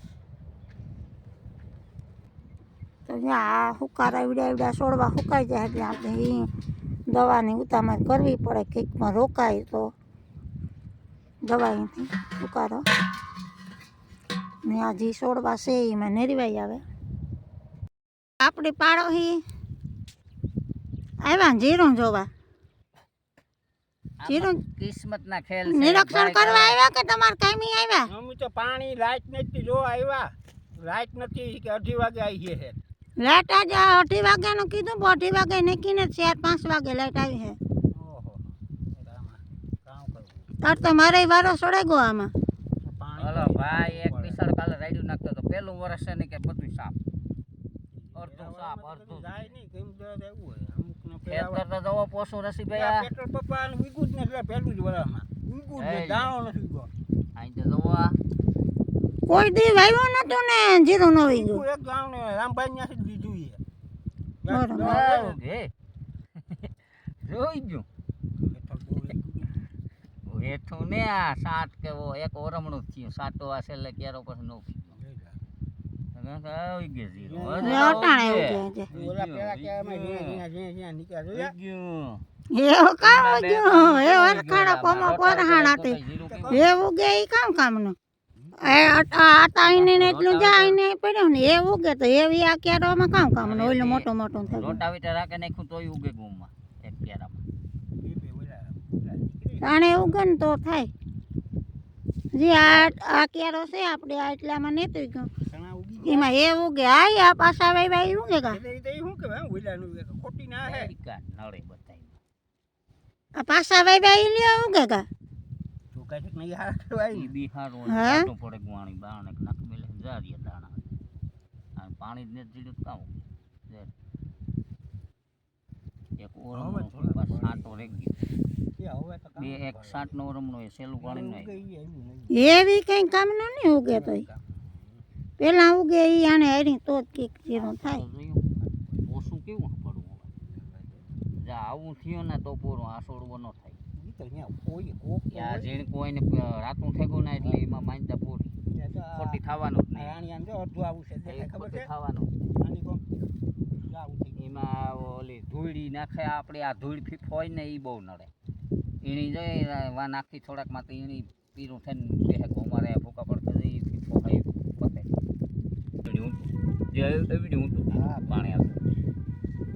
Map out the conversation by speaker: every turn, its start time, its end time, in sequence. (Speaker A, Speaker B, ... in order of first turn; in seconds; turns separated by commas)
Speaker A: 3.0-6.5, Speaker A: 7.1-9.9, Speaker A: 11.4-12.8, Speaker A: 14.6-16.8, Speaker A: 18.4-19.4, Speaker A: 21.2-22.3, Speaker B: 24.2-26.8, Speaker A: 24.2-24.6, Speaker A: 25.6-28.1, Speaker C: 28.1-32.8, Speaker A: 33.2-37.6, Speaker C: 37.9-40.5, Speaker A: 40.6-42.3, Speaker C: 42.8-44.4, Speaker B: 43.2-47.0, Speaker C: 47.9-51.6, Speaker B: 48.1-49.5, Speaker B: 51.2-53.1, Speaker C: 52.7-56.9, Speaker B: 55.8-56.3, Speaker B: 57.3-58.2, Speaker A: 59.3-61.6, Speaker C: 61.3-63.6, Speaker C: 64.4-65.4, Speaker A: 64.5-65.1, Speaker B: 64.7-65.7, Speaker B: 67.2-67.8, Speaker C: 68.4-69.5, Speaker B: 70.2-75.0, Speaker C: 75.0-75.4, Speaker B: 76.1-80.4, Speaker C: 77.2-78.1, Speaker A: 77.6-78.9, Speaker C: 78.9-81.5, Speaker B: 81.3-82.2, Speaker A: 82.5-86.0, Speaker B: 83.0-86.6, Speaker C: 86.2-86.7, Speaker A: 86.5-88.0, Speaker C: 88.4-88.7, Speaker A: 88.6-94.8, Speaker B: 89.6-90.8, Speaker B: 93.4-97.4, Speaker C: 98.0-100.1, Speaker A: 99.6-100.9, Speaker A: 102.3-105.3, Speaker C: 105.5-106.4, Speaker A: 106.0-108.6, Speaker C: 108.5-110.9, Speaker B: 110.6-112.2, Speaker A: 113.4-115.0, Speaker C: 115.9-117.3, Speaker B: 117.1-120.8, Speaker A: 117.9-118.3, Speaker B: 121.8-123.2, Speaker B: 126.2-128.3, Speaker C: 126.5-127.8, Speaker C: 128.8-130.1, Speaker B: 129.3-131.6, Speaker C: 131.0-132.4, Speaker A: 132.3-134.2, Speaker C: 133.9-134.9, Speaker A: 135.4-138.0, Speaker B: 137.5-138.5, Speaker B: 139.0-140.3, Speaker C: 140.4-141.0, Speaker B: 141.4-143.8, Speaker C: 143.9-145.7, Speaker B: 145.3-148.5, Speaker C: 148.7-149.4, Speaker B: 149.1-150.2, Speaker C: 149.9-151.9, Speaker B: 151.2-152.3, Speaker C: 152.6-153.1, Speaker C: 153.8-154.4, Speaker B: 154.3-158.3, Speaker B: 159.0-165.1, Speaker B: 166.0-168.7, Speaker C: 167.9-168.7